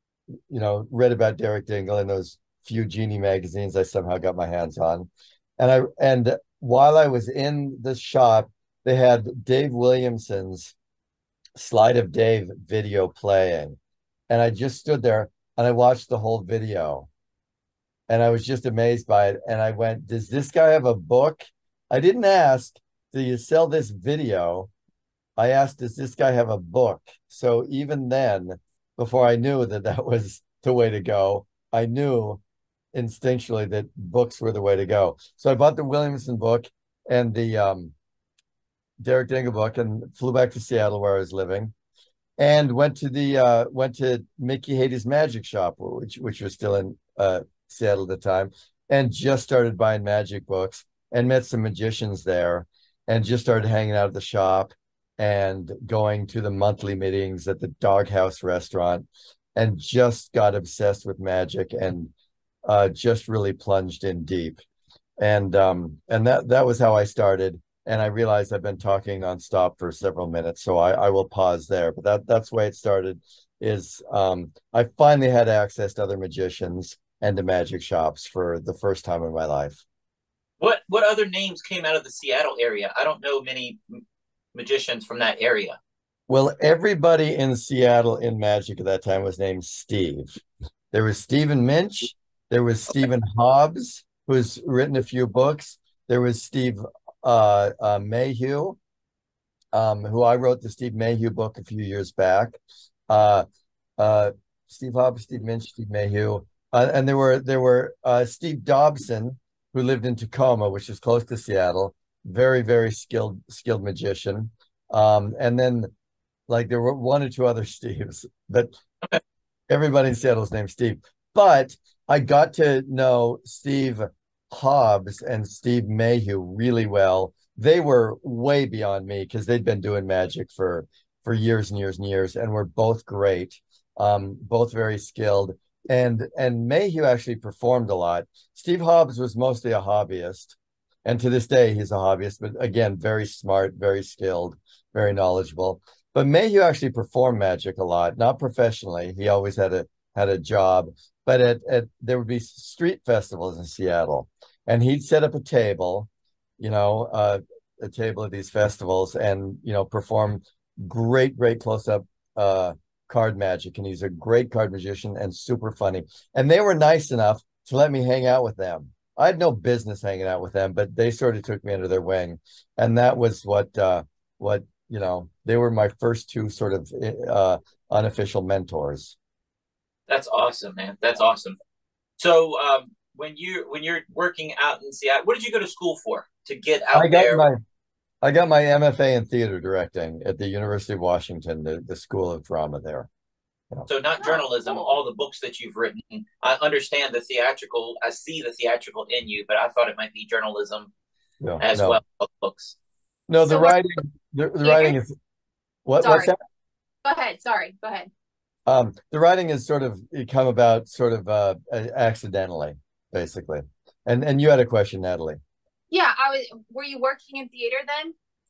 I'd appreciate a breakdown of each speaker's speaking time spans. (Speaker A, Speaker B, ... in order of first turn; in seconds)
Speaker A: 0.5-10.7, 11.6-13.8, 14.3-17.1, 18.1-24.7, 25.4-32.4, 32.9-37.9, 39.0-41.7, 42.4-62.1, 62.6-64.6, 65.2-79.8, 86.3-98.8, 99.7-103.4, 104.0-115.9, 116.5-118.7, 119.7-179.2, 186.9-187.6, 188.2-193.1, 201.4-202.0, 203.3-205.1, 205.8-206.4, 208.7-215.4
Speaker B: 80.6-84.0, 84.5-85.8, 180.1-181.6, 182.2-187.5, 193.9-200.9, 201.6-202.8
Speaker C: 194.2-194.9, 203.4-203.8, 204.6-205.0, 206.0-206.3, 207.0-208.1, 215.9-218.1